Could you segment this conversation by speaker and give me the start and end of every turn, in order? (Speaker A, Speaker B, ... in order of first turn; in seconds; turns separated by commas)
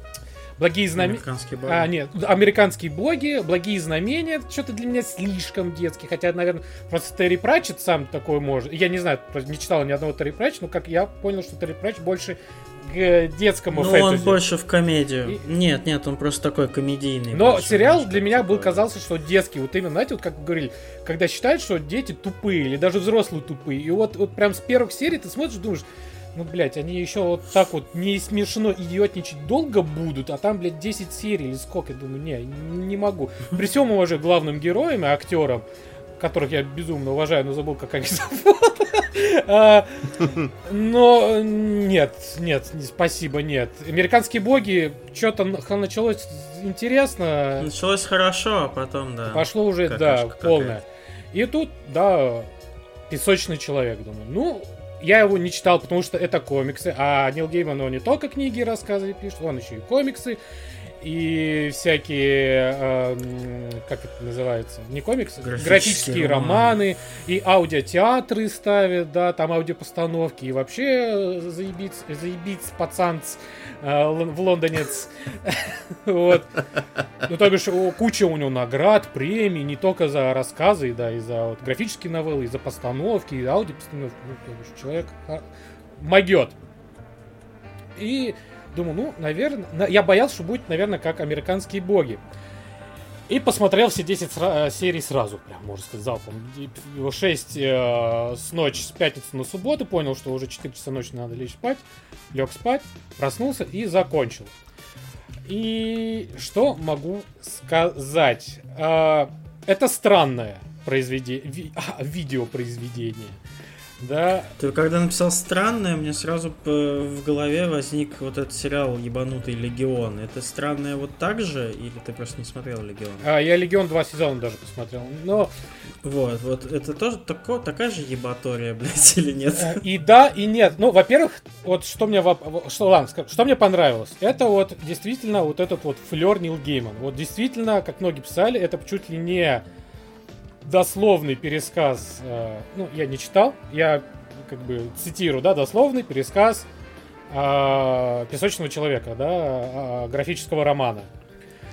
Speaker A: 0.6-14.4, Speaker B: 0.9-1.9, Speaker B: 13.7-18.9, Speaker A: 17.3-35.6, Speaker A: 36.2-47.7, Speaker B: 47.6-50.8, Speaker A: 49.3-52.5, Speaker A: 53.1-60.4, Speaker A: 61.0-76.6, Speaker B: 65.4-66.8, Speaker A: 77.2-85.4, Speaker A: 86.0-86.5, Speaker A: 88.0-92.2, Speaker A: 93.3-104.5, Speaker A: 105.5-113.4, Speaker A: 114.0-114.5, Speaker B: 114.6-123.3, Speaker A: 123.2-125.5, Speaker B: 126.0-129.8, Speaker A: 129.6-139.6, Speaker A: 140.6-146.7, Speaker A: 147.3-151.1